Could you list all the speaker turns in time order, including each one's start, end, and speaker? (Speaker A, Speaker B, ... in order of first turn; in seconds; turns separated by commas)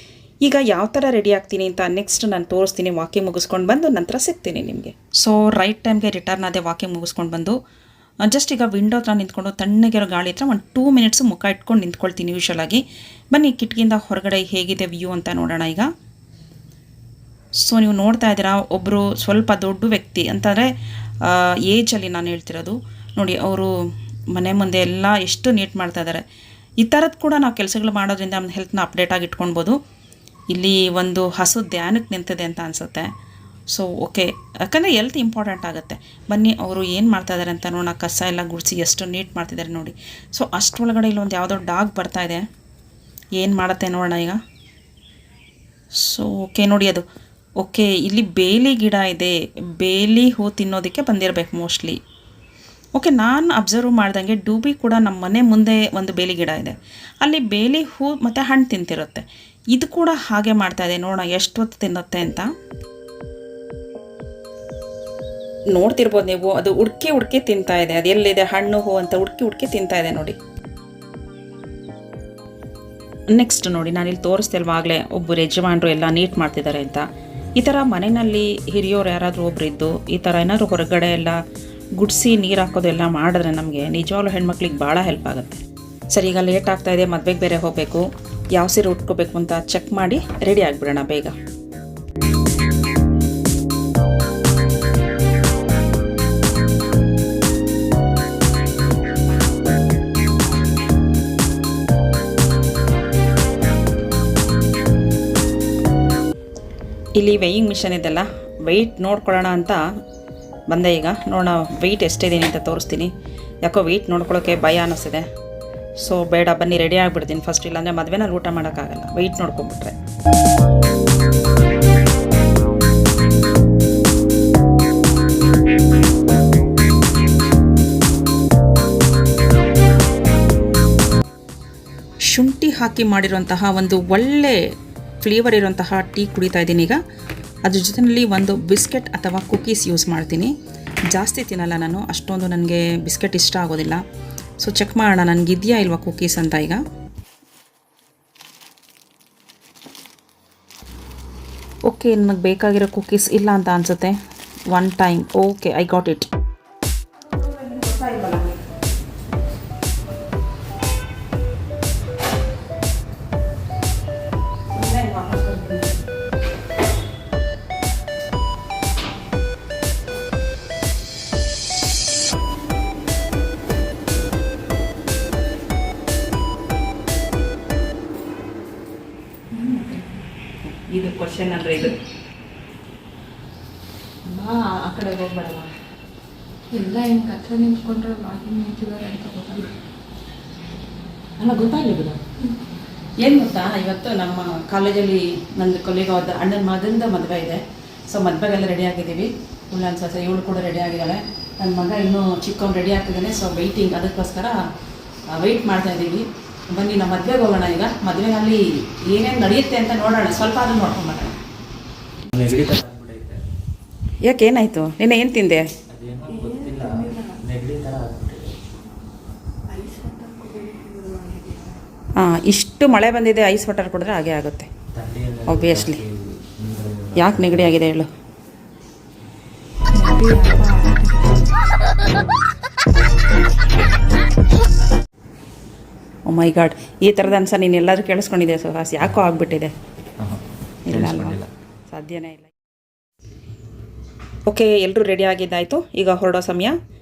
Speaker A: 0.4-7.6, Speaker A: 8.2-15.9, Speaker A: 17.6-23.7, Speaker A: 24.3-26.2, Speaker A: 26.8-29.8, Speaker A: 30.5-33.1, Speaker A: 33.7-42.5, Speaker A: 43.4-44.4, Speaker A: 46.0-47.0, Speaker A: 47.6-52.0, Speaker A: 52.9-62.5, Speaker A: 65.7-70.4, Speaker A: 73.3-81.4, Speaker A: 82.0-91.3, Speaker A: 107.2-109.8, Speaker A: 110.7-113.1, Speaker A: 113.6-115.3, Speaker A: 116.0-120.0, Speaker A: 132.2-137.0, Speaker A: 137.6-140.5, Speaker A: 141.1-144.0, Speaker A: 144.6-146.8, Speaker A: 151.9-154.2, Speaker A: 154.7-156.3, Speaker A: 157.2-158.6, Speaker A: 164.7-165.9, Speaker A: 179.5-180.0, Speaker A: 180.6-182.0, Speaker A: 184.3-185.7, Speaker B: 186.7-189.7, Speaker A: 191.4-192.2, Speaker A: 193.2-204.6, Speaker A: 205.3-211.4, Speaker C: 212.3-213.4, Speaker A: 214.2-215.7, Speaker C: 215.9-218.6, Speaker B: 216.4-217.3, Speaker B: 219.7-221.7, Speaker A: 222.2-224.7, Speaker C: 224.9-227.7, Speaker A: 225.4-226.0, Speaker A: 227.2-228.1, Speaker A: 229.9-230.6, Speaker B: 230.0-231.2, Speaker A: 236.3-239.7, Speaker C: 240.2-241.4, Speaker A: 240.9-242.5, Speaker A: 244.5-246.8